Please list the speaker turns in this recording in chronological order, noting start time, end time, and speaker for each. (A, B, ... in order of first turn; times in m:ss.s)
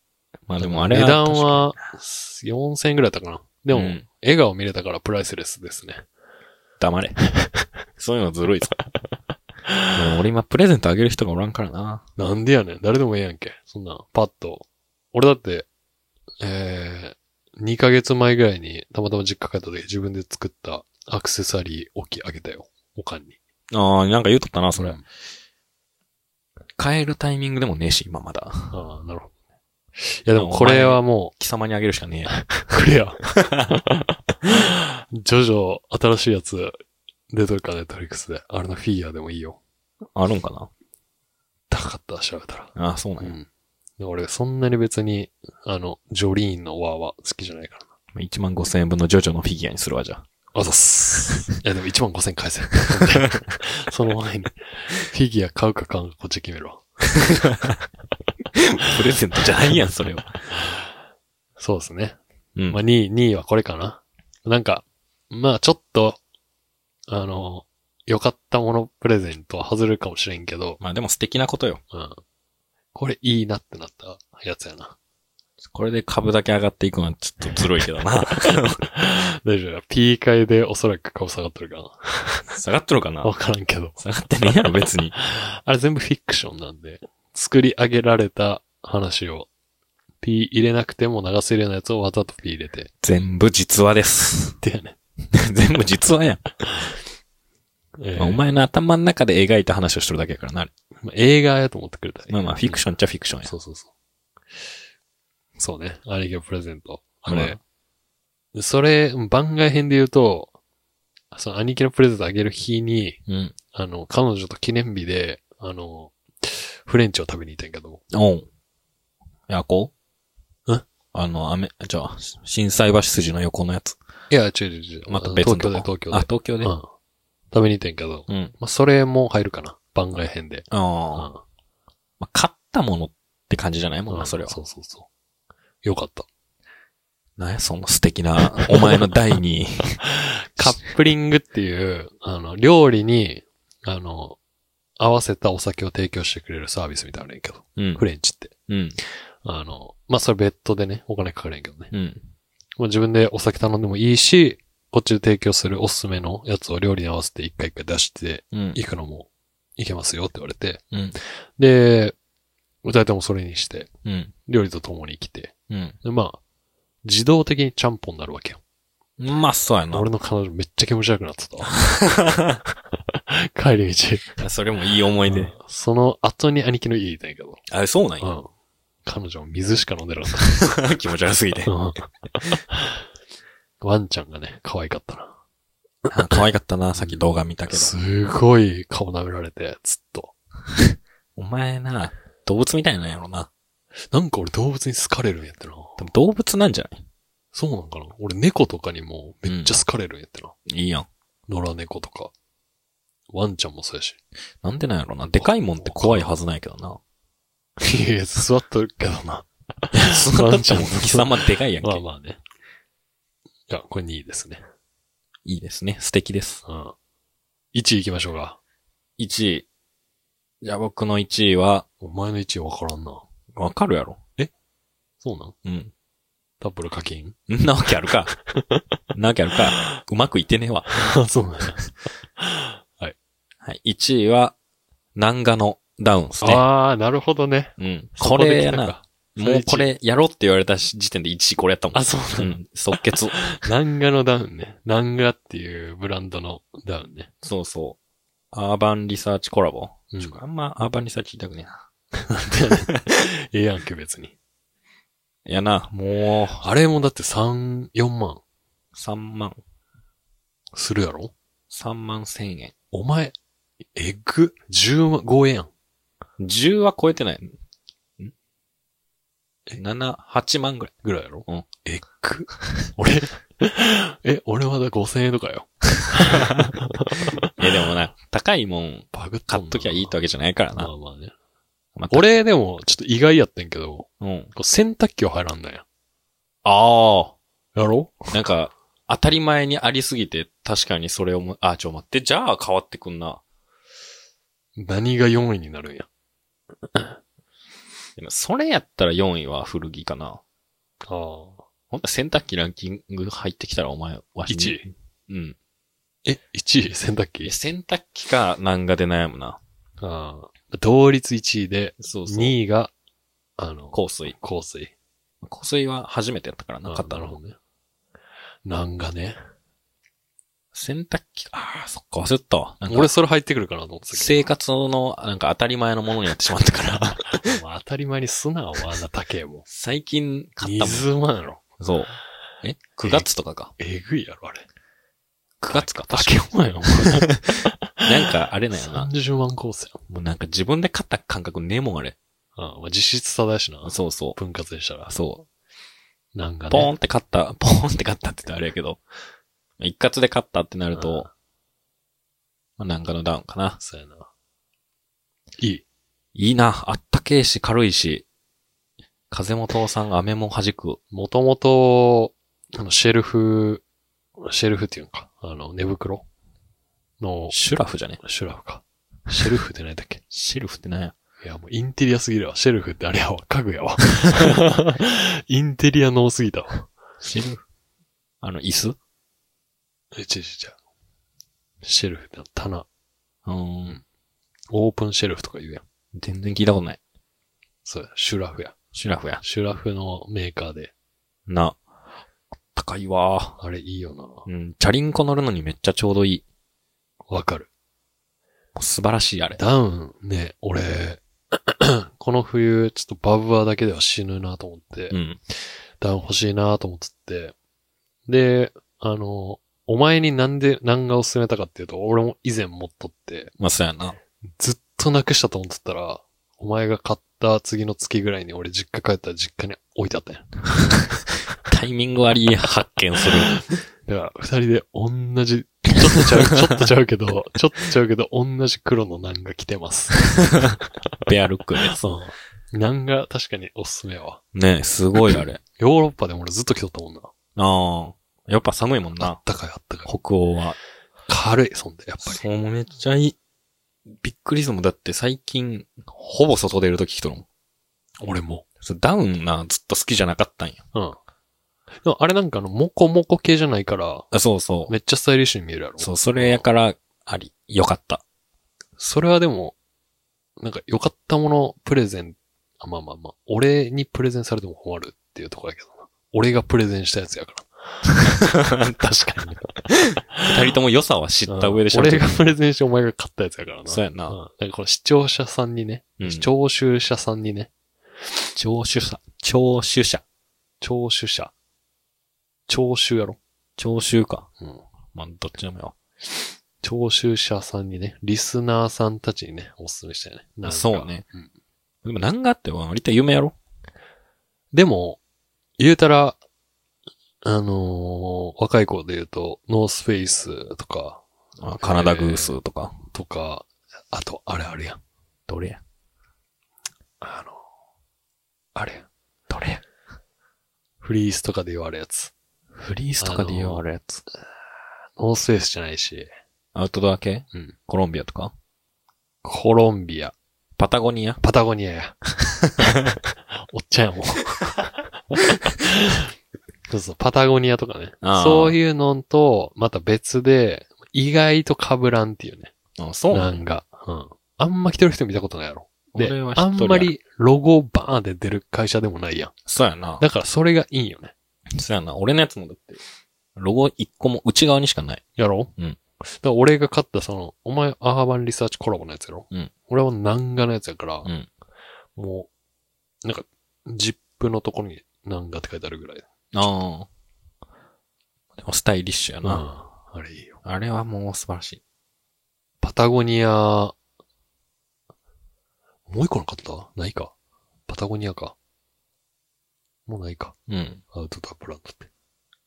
0:00.5-0:01.7 A
0:00.6-0:06.0 B
0:03.7-0:04.0 A
0:06.8-0:07.2 A
0:08.0-0:08.7 A
0:09.9-0:12.0 A
0:12.2-0:15.7 B
0:16.4-0:23.4 B
0:23.7-0:25.0 A
0:24.7-0:25.0 B
0:26.8-0:28.7 A
0:28.7-0:29.3 B
0:30.0-0:31.3 B
0:30.4-0:32.4 A
0:32.3-0:36.8 B
0:33.4-0:33.7 A
0:37.3-0:39.6 B
0:40.1-0:40.7 A
0:41.7-0:43.5 B
0:42.8-0:43.3 A
0:44.0-0:47.9 B
0:48.1-0:50.2 A
0:50.5-0:56.8 B
0:57.3-0:57.8 A
0:58.6-1:00.4 A
1:01.6-1:06.2 B
1:07.1-1:10.8 B
1:10.8-1:11.8 A
1:11.9-1:12.2 B
1:12.9-1:15.0 B
1:15.6-1:18.8 A
1:18.9-1:22.4 B
1:22.5-1:23.3 A
1:23.2-1:24.0 B
1:24.0-1:25.2 A
1:25.1-1:29.5 B
1:30.2-1:32.9 B
1:33.0-1:34.6 A
1:34.6-1:35.0 B
1:35.3-1:36.4 A
1:38.0-1:38.4 B
1:38.2-1:40.7 A
1:41.0-1:42.8 B
1:42.3-1:43.5 A
1:43.4-1:43.9 B
1:45.6-1:47.6 B
1:47.3-1:47.6 A
1:48.5-1:50.5 B
1:51.3-1:53.2 B
1:53.3-1:53.6 A
1:53.7-1:58.0 B
1:58.1-1:58.5 A
1:59.5-1:59.9 A
2:01.1-2:04.0 A
2:04.3-2:06.9 B
2:05.1-2:06.7 A
2:07.5-2:11.4 B
2:08.3-2:08.5 A
2:10.7-2:11.3 A
2:12.2-2:14.6 A
2:14.1-2:15.1 B
2:15.8-2:16.3 B
2:17.4-2:20.0 A
2:18.7-2:19.0 B
2:20.0-2:24.4 B
2:25.0-2:31.9 B
2:27.8-2:28.0 A
2:28.7-2:29.0 A
2:31.9-2:32.2 A
2:32.8-2:42.1 B
2:38.5-2:38.8 A
2:42.8-2:43.9 B
2:44.0-2:44.3 A
2:44.4-2:46.4 B
2:45.7-2:46.0 A
2:47.0-2:48.6 B
2:49.2-2:50.1 A
2:49.9-2:52.0 B
2:51.9-2:52.6 A
2:53.3-2:54.4 B
2:54.4-2:55.5 A
2:55.2-2:57.6 B
2:57.7-2:58.3 A
2:58.2-2:58.5 B
2:59.0-3:00.7 B
3:00.6-3:01.7 A
3:01.6-3:02.9 B
3:03.8-3:05.3 B
3:06.1-3:07.9 A
3:07.0-3:10.3 B
3:11.4-3:13.5 A
3:14.1-3:16.0 B
3:16.0-3:17.0 A
3:17.5-3:20.5 B
3:19.4-3:19.8 A
3:20.7-3:21.1 A
3:21.5-3:22.3 B
3:23.3-3:24.2 B
3:24.6-3:27.0 A
3:25.4-3:26.3 B
3:27.8-3:32.4 B
3:29.9-3:32.0 A
3:33.7-3:34.6 B
3:35.4-3:36.6 A
3:36.6-3:36.9 B
3:37.7-3:38.6 B
3:39.2-3:39.6 A
3:40.6-3:41.8 A
3:42.0-3:43.2 B
3:43.5-3:44.2 A
3:45.2-3:45.5 B
3:45.6-3:45.9 A
3:46.6-3:47.4 B
3:47.5-3:48.4 A
3:48.5-3:48.8 B
3:49.1-3:51.0 A
3:50.9-3:53.1 B
3:53.6-3:54.5 A
3:55.2-3:56.6 A
3:56.4-3:59.9 B
3:57.8-4:03.5 A
4:01.9-4:07.3 B
4:07.4-4:08.0 A
4:08.5-4:11.8 A
4:10.1-4:10.4 B
4:12.2-4:14.3 B
4:15.4-4:16.6 A
4:16.6-4:18.4 B
4:18.9-4:19.6 A
4:20.7-4:21.3 B
4:21.7-4:22.7 A
4:22.9-4:23.3 B
4:23.9-4:25.7 B
4:26.4-4:27.5 A
4:29.8-4:30.9 A
4:31.0-4:37.5 B
4:36.2-4:36.7 A
4:37.6-4:40.9 A
4:39.1-4:40.1 B
4:40.8-4:41.3 B
4:42.0-4:42.2 A
4:42.1-4:45.8 B
4:44.2-4:44.5 A
4:46.6-4:47.4 A
4:47.7-4:48.3 B
4:48.3-4:53.4 A
4:54.8-4:56.1 B
4:58.2-5:00.4 A
5:01.0-5:01.6 B
5:01.9-5:05.6 A
5:04.5-5:04.8 B
5:06.2-5:07.5 B
5:07.4-5:09.6 A
5:10.0-5:12.9 B
5:12.0-5:12.6 A
5:13.6-5:14.9 B
5:13.9-5:14.3 A
5:15.4-5:17.4 A
5:16.8-5:17.6 B
5:18.6-5:19.4 B
5:20.7-5:23.1 A
5:22.9-5:24.5 B
5:24.1-5:27.5 A
5:27.3-5:29.6 B
5:29.7-5:31.1 A
5:30.6-5:31.6 B
5:31.8-5:33.7 A
5:33.8-5:34.6 B
5:35.6-5:39.1 A
5:35.7-5:40.0 B
5:40.1-5:42.2 A
5:42.6-5:45.1 B
5:43.8-5:44.4 A
5:45.1-5:45.5 A
5:46.3-5:46.9 B
5:46.7-5:49.0 A
5:49.8-5:51.3 A
5:50.9-5:51.3 B
5:52.8-5:53.8 A
5:53.8-5:54.3 B
5:56.3-5:58.2 A
5:59.3-6:01.0 A
6:01.1-6:03.8 B
6:04.4-6:06.2 B
6:07.2-6:07.6 B
6:07.5-6:08.2 A
6:08.2-6:10.2 B
6:10.3-6:11.1 A
6:11.4-6:16.9 B
6:17.2-6:17.6 A
6:18.4-6:19.0 A
6:20.1-6:20.8 B
6:21.8-6:22.8 B
6:23.4-6:24.0 A
6:24.7-6:25.8 B
6:26.1-6:27.0 A
6:27.8-6:28.8 B
6:28.9-6:29.4 A
6:29.4-6:30.9 B
6:31.5-6:31.8 A
6:32.7-6:33.6 A
6:33.6-6:34.4 B
6:34.4-6:36.4 A
6:37.3-6:37.7 B
6:38.8-6:39.6 A
6:39.5-6:45.2 B
6:45.1-6:45.4 A
6:46.0-6:47.5 B
6:48.3-6:53.5 B
6:53.6-6:54.2 A
6:54.6-7:00.5 B
7:01.6-7:03.6 A
7:04.0-7:10.7 B
7:11.2-7:12.0 A
7:11.9-7:14.4 B
7:14.5-7:15.6 A
7:15.8-7:17.3 B
7:17.6-7:19.4 A
7:19.2-7:20.1 B
7:20.0-7:20.8 A
7:21.3-7:22.4 B
7:22.2-7:23.4 A
7:24.1-7:27.4 A
7:28.2-7:28.6 B
7:28.8-7:30.8 A
7:32.0-7:34.3 B
7:34.3-7:34.9 A
7:34.9-7:36.6 B
7:36.0-7:38.2 A
7:39.0-7:39.8 B
7:40.6-7:49.8 B
7:48.5-7:52.4 A
7:51.5-7:57.7 B
7:53.9-7:54.4 A
7:56.2-7:56.5 A
7:58.6-8:00.2 A
8:00.8-8:01.5 B
8:02.7-8:03.4 B
8:03.8-8:04.5 A
8:05.1-8:06.0 A
8:06.8-8:11.5 B
8:10.6-8:11.2 A
8:12.0-8:13.5 A
8:14.7-8:15.2 B
8:15.8-8:16.4 B
8:17.4-8:21.2 B
8:21.6-8:22.9 A
8:21.8-8:22.6 B
8:23.1-8:25.0 B
8:25.5-8:25.8 A
8:27.2-8:27.6 B
8:28.7-8:29.1 B
8:29.5-8:29.8 A
8:31.0-8:32.3 B
8:32.8-8:34.2 A
8:33.2-8:33.8 B
8:35.2-8:36.3 B
8:36.7-8:38.5 A
8:39.4-8:40.3 B
8:40.8-8:41.4 A
8:41.4-8:42.2 B
8:42.4-8:43.2 A
8:43.6-8:46.3 B
8:46.9-8:52.7 B
8:48.2-8:48.8 A
8:53.0-8:53.6 A
8:53.3-8:59.5 B
8:56.1-8:57.1 A
8:59.6-9:00.2 A
9:00.2-9:01.3 B
9:01.7-9:03.0 A
9:03.6-9:05.2 A
9:05.4-9:05.7 B
9:06.2-9:11.3 B
9:12.2-9:12.5 B
9:13.2-9:16.2 B
9:16.5-9:17.1 A
9:18.6-9:19.6 A
9:19.4-9:20.6 B
9:20.6-9:21.8 A
9:22.8-9:23.9 B
9:26.1-9:27.3 B
9:27.9-9:28.5 B
9:30.1-9:30.6 B
9:30.7-9:31.0 A
9:31.1-9:32.1 B